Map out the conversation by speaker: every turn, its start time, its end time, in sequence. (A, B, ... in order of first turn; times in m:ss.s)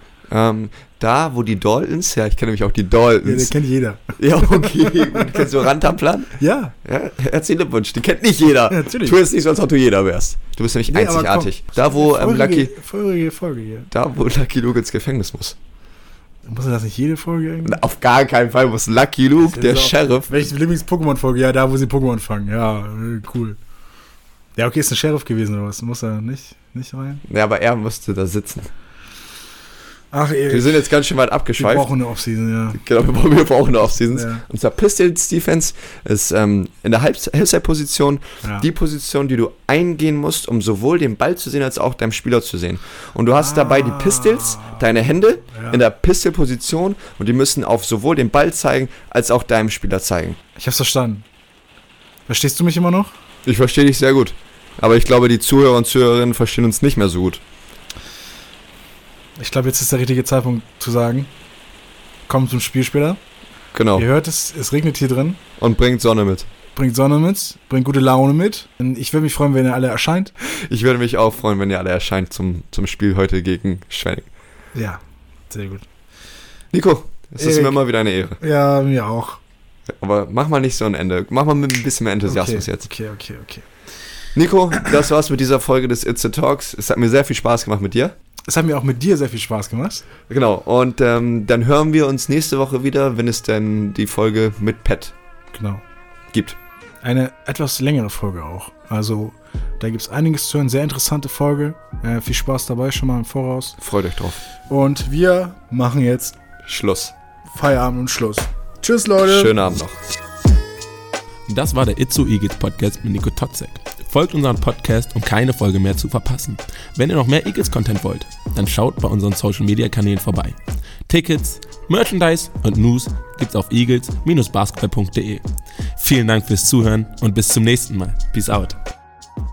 0:00.3-0:03.5 A
0:03.2-0:05.6 B
0:04.2-0:12.7 A
0:06.4-0:06.7 B
0:08.6-0:09.2 B
0:10.9-0:13.9 B
0:13.9-0:15.6 A
0:16.4-0:17.8 B
0:17.6-0:20.3 A
0:19.4-0:23.6 B
0:24.6-0:27.2 B
0:27.3-0:28.7 A
0:30.1-0:30.9 B
0:30.5-0:31.9 A
0:31.5-0:32.8 B
0:32.8-0:50.4 A
0:34.1-0:34.4 B
0:43.4-0:44.8 B
0:45.5-0:45.8 B
0:50.6-0:51.2 B
0:52.3-0:53.1 B
0:53.4-0:57.4 A
0:59.4-1:01.3 B
1:02.3-1:03.2 B
1:03.7-1:04.1 A
1:03.9-1:05.4 B
1:05.6-1:06.5 A
1:06.8-1:10.3 B
1:10.4-1:14.3 A
1:14.7-1:15.8 B
1:16.7-1:18.4 A
1:17.4-1:17.8 B
1:18.4-1:19.4 B
1:20.0-1:22.9 A
1:22.2-1:23.6 B
1:24.3-1:28.1 A
1:28.5-1:30.0 B
1:30.3-1:35.1 A
1:35.5-1:35.8 B
1:36.3-1:36.6 A
1:37.0-1:43.8 B
1:43.8-1:44.4 A
1:44.7-1:46.3 B
1:46.6-1:47.1 A
1:47.5-1:49.5 B
1:49.2-1:50.0 A
1:51.5-2:05.4 C
2:06.0-2:08.8 C